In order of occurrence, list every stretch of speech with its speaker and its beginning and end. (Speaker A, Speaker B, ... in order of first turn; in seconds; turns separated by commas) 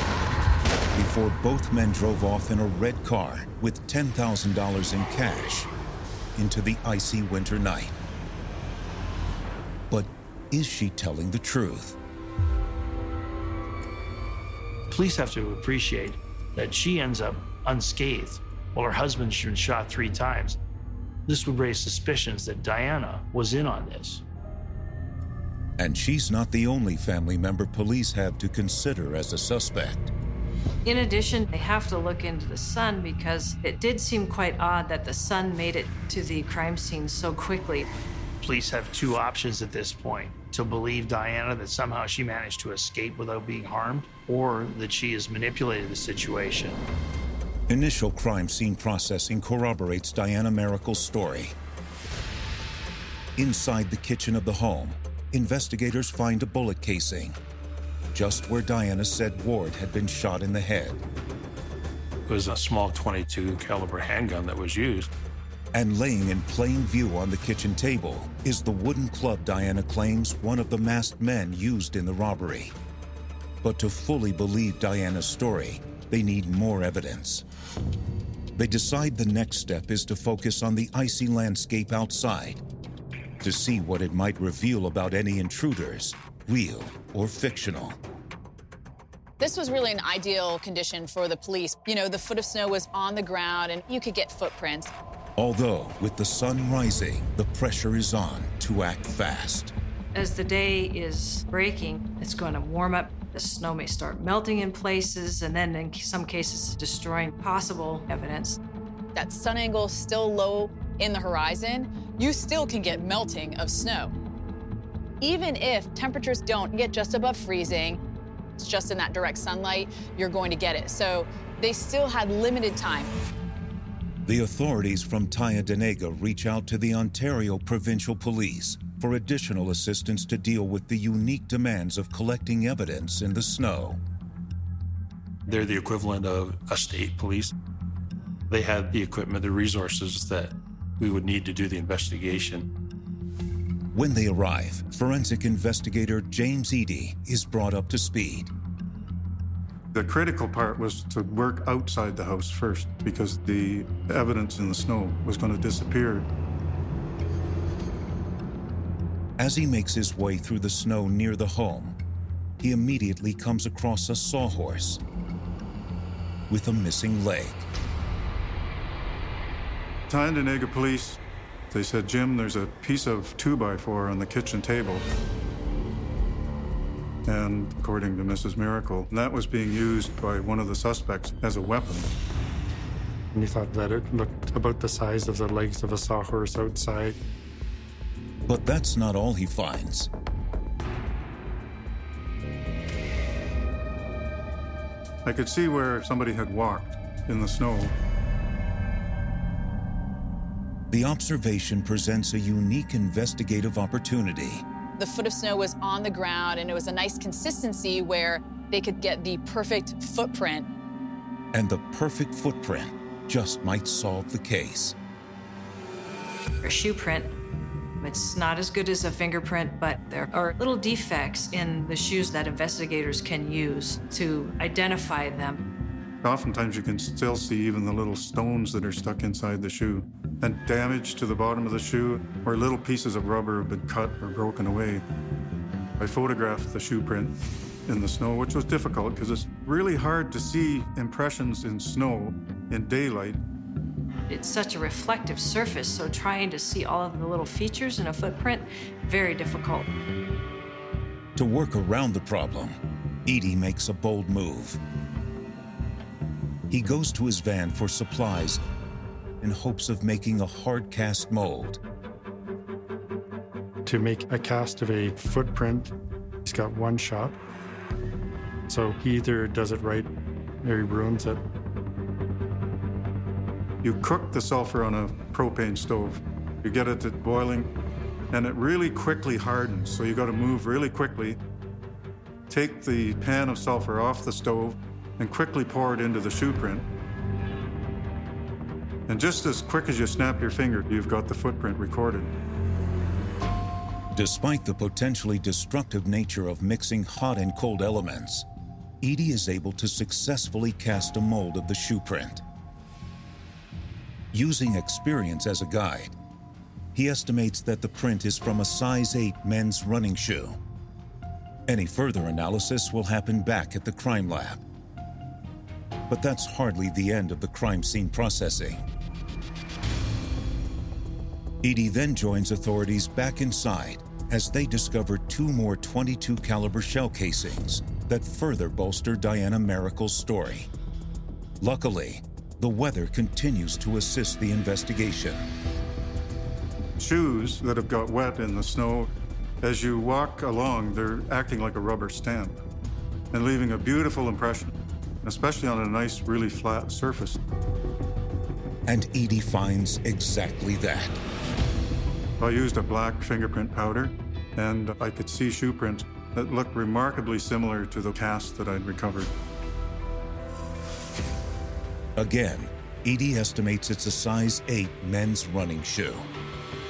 Speaker A: 0.9-5.7, Speaker A: 6.3-8.0, Speaker A: 9.9-12.0, Speaker B: 14.9-20.6, Speaker B: 21.3-24.2, Speaker A: 25.8-30.1, Speaker C: 30.8-37.9, Speaker B: 38.4-46.9, Speaker A: 47.7-51.5, Speaker A: 53.4-57.4, Speaker A: 58.1-61.0, Speaker D: 62.2-65.1, Speaker A: 65.7-72.7, Speaker A: 73.6-77.4, Speaker A: 78.5-82.6, Speaker A: 83.4-88.0, Speaker E: 89.4-94.9, Speaker A: 95.4-99.7, Speaker C: 100.1-108.6, Speaker E: 109.1-114.1, Speaker E: 115.2-118.0, Speaker E: 118.6-123.1, Speaker A: 124.2-134.0, Speaker D: 135.5-137.5, Speaker D: 138.5-142.7, Speaker A: 143.9-148.5, Speaker F: 149.9-156.3, Speaker A: 159.4-161.9, Speaker A: 162.6-165.0, Speaker A: 166.5-167.7, Speaker F: 170.1-171.2, Speaker F: 171.7-175.1, Speaker F: 177.2-182.1, Speaker G: 183.3-187.2, Speaker A: 188.4-190.1, Speaker F: 195.2-197.9, Speaker A: 200.9-204.6, Speaker E: 205.0-210.7, Speaker A: 211.5-214.9, Speaker C: 216.6-217.3, Speaker C: 218.0-225.6, Speaker F: 226.2-235.0, Speaker F: 236.0-237.3, Speaker F: 237.9-243.4, Speaker C: 244.3-249.9, Speaker A: 251.3-254.8, Speaker A: 256.7-258.6, Speaker A: 259.4-261.8, Speaker G: 263.9-265.9, Speaker G: 266.4-267.4, Speaker G: 268.7-270.1, Speaker G: 270.6-271.4, Speaker F: 273.8-277.7, Speaker F: 278.3-281.4, Speaker F: 282.5-286.9, Speaker F: 289.1-292.3, Speaker A: 294.1-298.5, Speaker A: 299.0-302.4, Speaker A: 304.3-306.1, Speaker A: 306.9-310.6, Speaker A: 311.7-314.6, Speaker A: 316.1-318.9, Speaker A: 321.6-330.7, Speaker A: 331.6-335.5, Speaker F: 337.0-339.1, Speaker F: 339.6-342.6, Speaker F: 343.3-347.4, Speaker A: 348.9-351.2, Speaker F: 352.4-359.3, Speaker A: 362.2-366.3